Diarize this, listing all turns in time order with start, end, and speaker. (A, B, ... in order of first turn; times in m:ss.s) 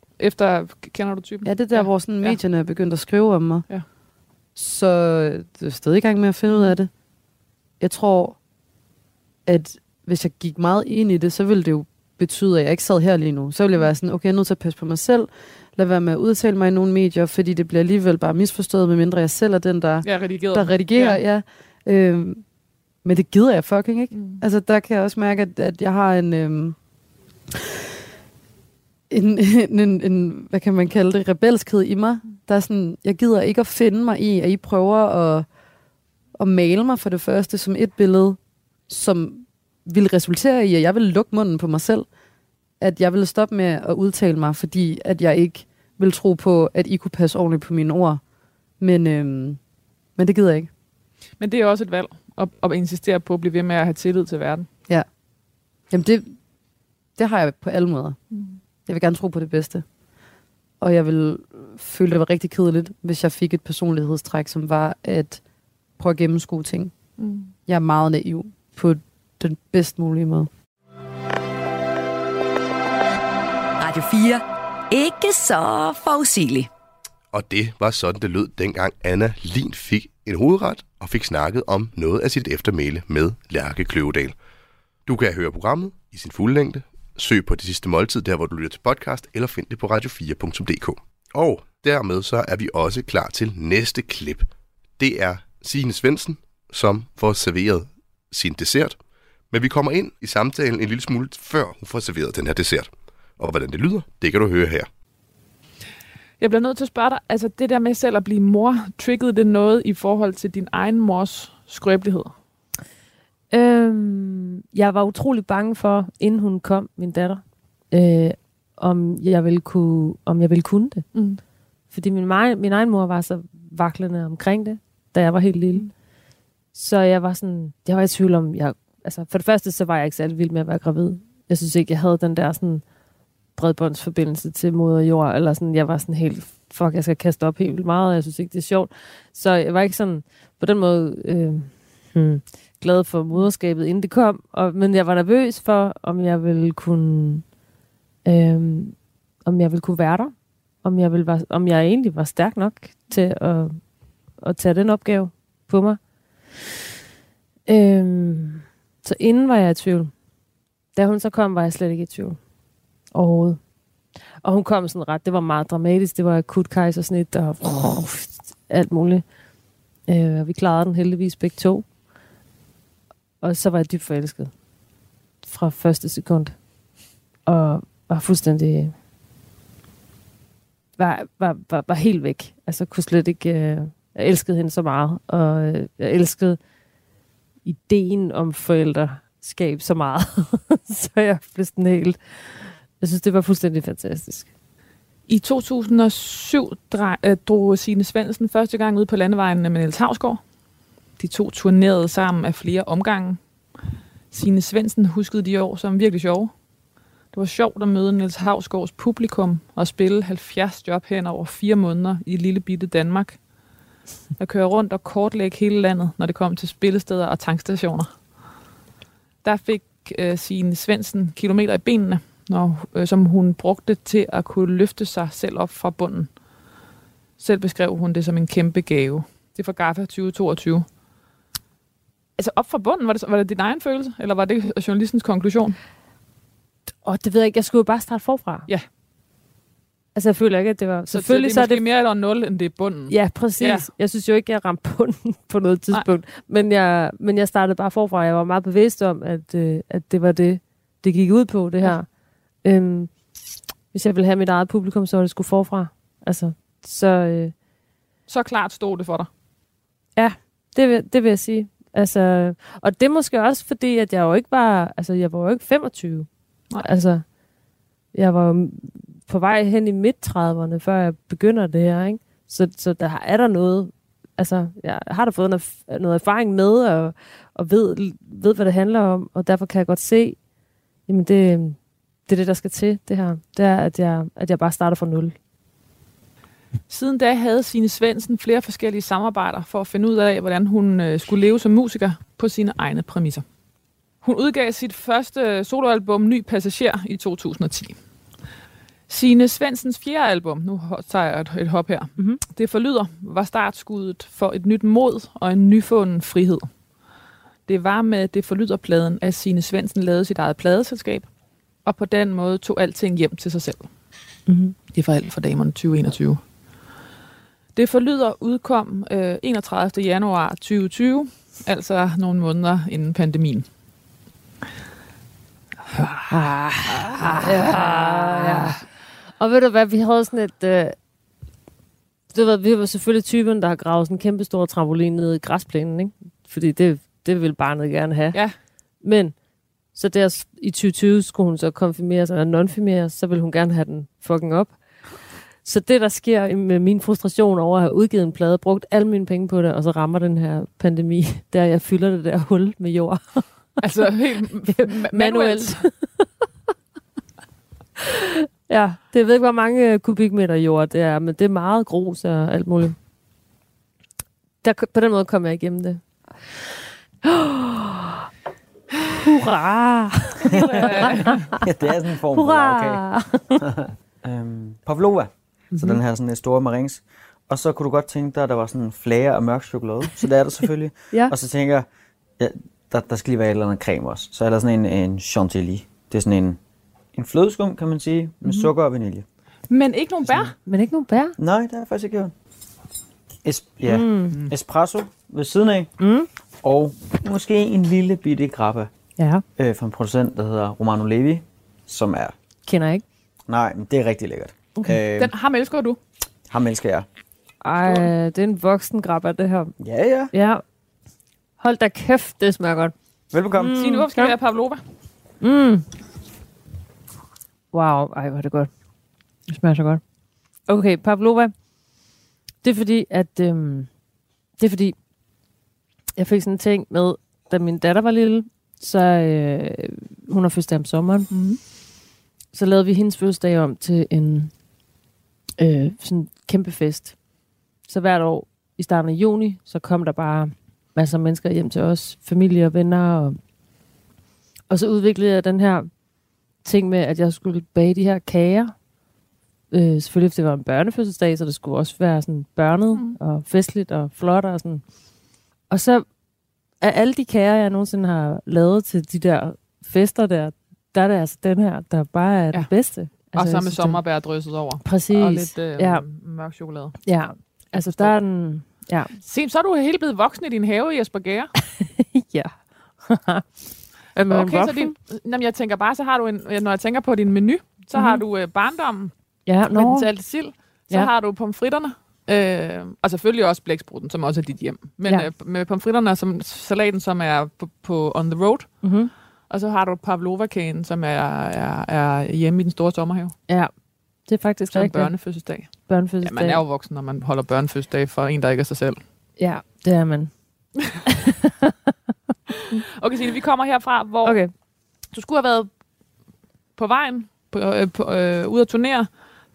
0:00.2-0:02.4 A
0:01.4-0:03.7 B
0:04.6-0:06.9 B
0:06.5-0:06.8 A
0:07.8-0:08.4 B
0:09.5-0:22.4 B
0:20.0-0:21.2 A
0:23.0-0:26.8 B
0:24.1-0:24.4 A
0:29.1-0:35.5 B
0:36.4-0:42.1 B
0:42.8-0:48.2 B
0:48.8-0:49.6 B
0:50.2-0:50.7 B
0:51.4-0:54.7 A
0:55.9-0:56.4 B
0:57.2-0:58.2 B
0:58.3-0:58.6 A
0:58.9-0:59.8 B
1:00.8-1:05.4 B
1:06.0-1:06.9 B
1:07.2-1:07.5 A
1:07.7-1:10.5 B
1:13.8-1:16.7 C
1:17.3-1:24.4 D
1:25.1-1:39.0 D
1:39.5-1:44.9 D
1:46.4-1:52.3 A
1:53.5-2:01.1 E
2:01.1-2:01.4 A
2:01.9-2:05.9 E
2:06.7-2:12.9 E
2:13.6-2:27.5 E
2:28.2-2:36.0 E
2:37.7-2:40.1 E
2:40.9-2:42.4 E
2:43.1-2:43.6 E
2:44.4-2:49.3 E
2:50.1-2:51.9 E
2:53.4-2:54.5 E
2:55.4-2:56.7 E
2:57.4-2:58.9 E
3:01.0-3:06.6 E
3:07.6-3:14.5 E
3:15.3-3:20.4 A
3:21.2-3:23.4 A
3:24.3-3:26.6 A
3:27.3-3:33.4 A
3:34.4-3:38.1 A
3:39.4-3:46.3 A
3:47.4-3:50.9 A
3:52.4-3:55.8 A
3:56.9-3:58.7 E
4:00.2-4:01.8 E
4:01.1-4:03.9 A
4:03.1-4:13.2 E
4:13.9-4:17.5 E
4:18.3-4:19.3 A
4:20.2-4:27.3 E
4:28.1-4:40.4 E
4:41.1-4:45.4 E
4:46.9-4:53.4 A
4:54.2-4:58.0 A
4:59.1-5:06.7 A
5:07.7-5:11.3 A
5:11.8-5:13.9 A
5:14.5-5:14.8 E
5:14.9-5:16.4 A
5:17.8-5:23.7 A
5:25.9-5:26.3 A
5:26.3-5:28.8 E
5:26.9-5:28.8 A
5:29.4-5:31.0 E
5:32.3-5:38.4 E
5:39.0-5:39.4 E
5:39.9-5:44.8 E
5:45.6-5:53.8 E
5:53.8-5:55.8 A
5:54.7-5:56.3 E
5:58.7-6:03.0 E
6:04.6-6:06.6 E
6:07.2-6:08.0 E
6:09.2-6:11.6 E
6:10.6-6:21.9 F
6:10.6-6:11.5 A
6:12.3-6:13.6 E
6:15.7-6:16.0 E
6:22.4-6:26.6 F
6:27.1-6:29.2 F
6:29.7-6:30.5 A
6:30.7-6:31.4 E
6:31.4-6:32.3 F
6:33.4-6:35.9 F
6:33.9-6:34.4 E
6:36.0-6:36.3 E
6:36.6-6:38.9 F
6:39.2-6:39.4 E
6:39.6-6:42.4 F
6:42.7-6:43.0 E
6:43.5-6:45.3 F
6:45.2-6:46.0 A
6:46.5-6:47.1 F
6:47.6-6:49.7 E
6:49.8-6:50.3 F
6:50.3-6:50.6 E
6:51.6-6:52.9 E
6:53.3-6:53.8 F
6:53.6-6:54.4 E
6:53.7-6:54.8 A
6:55.4-6:55.9 E
6:57.7-6:58.7 E
6:59.5-7:00.0 E
7:00.7-7:01.5 E
7:02.6-7:03.9 E
7:04.6-7:05.0 E
7:06.2-7:11.3 E
7:11.3-7:11.6 A
7:12.5-7:14.5 E
7:15.6-7:17.2 E
7:17.9-7:23.4 E
7:24.7-7:25.9 E
7:26.6-7:28.8 E
7:29.7-7:34.9 E
7:32.9-7:33.2 A
7:35.7-7:36.1 E
7:36.8-7:44.0 E
7:42.5-7:47.0 A
7:44.8-7:46.0 E
7:47.0-7:49.1 E
7:47.7-7:48.2 A
7:49.2-7:51.5 A
7:51.8-7:53.5 E
7:54.2-7:54.9 E
7:54.3-7:59.1 A
7:58.0-7:58.2 E
7:59.5-8:00.1 E
7:59.7-8:09.0 A
8:08.8-8:09.1 E
8:09.5-8:13.4 A
8:14.3-8:16.6 E
8:14.7-8:19.0 A
8:19.4-8:21.3 E
8:23.0-8:24.5 A
8:24.2-8:24.5 E
8:25.1-8:25.7 A
8:26.8-8:29.1 A